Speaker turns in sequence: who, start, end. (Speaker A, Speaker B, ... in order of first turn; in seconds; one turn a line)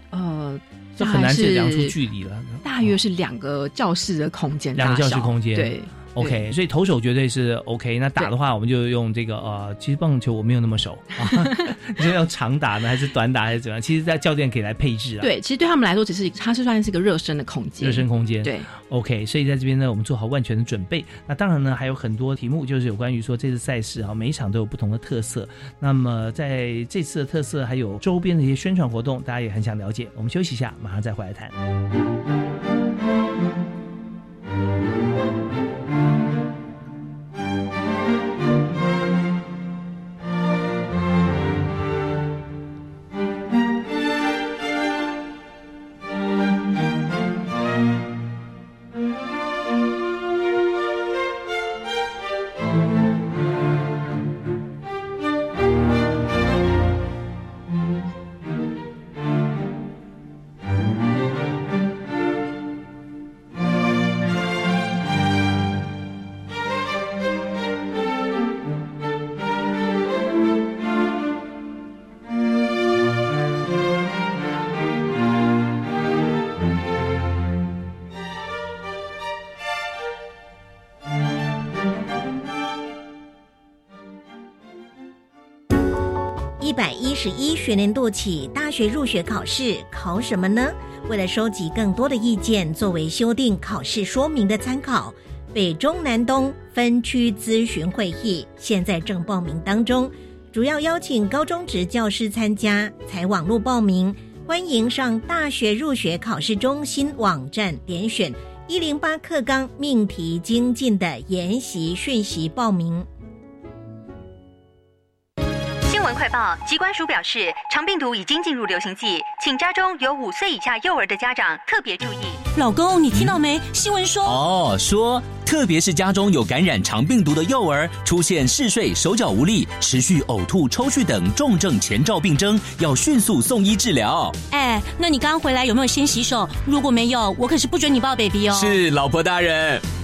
Speaker A: 0.1-2.0
Speaker B: 1.0-2.9
Speaker A: 2.6-6.4
Speaker B: 4.8-15.3
Speaker A: 11.2-11.6
Speaker A: 15.2-18.7
Speaker B: 17.8-31.5
Speaker C: 86.6-113.1
Speaker D: 115.8-122.4
Speaker E: 122.5-124.4
Speaker F: 124.2-134.4
Speaker E: 134.5-138.8
Speaker F: 138.5-139.8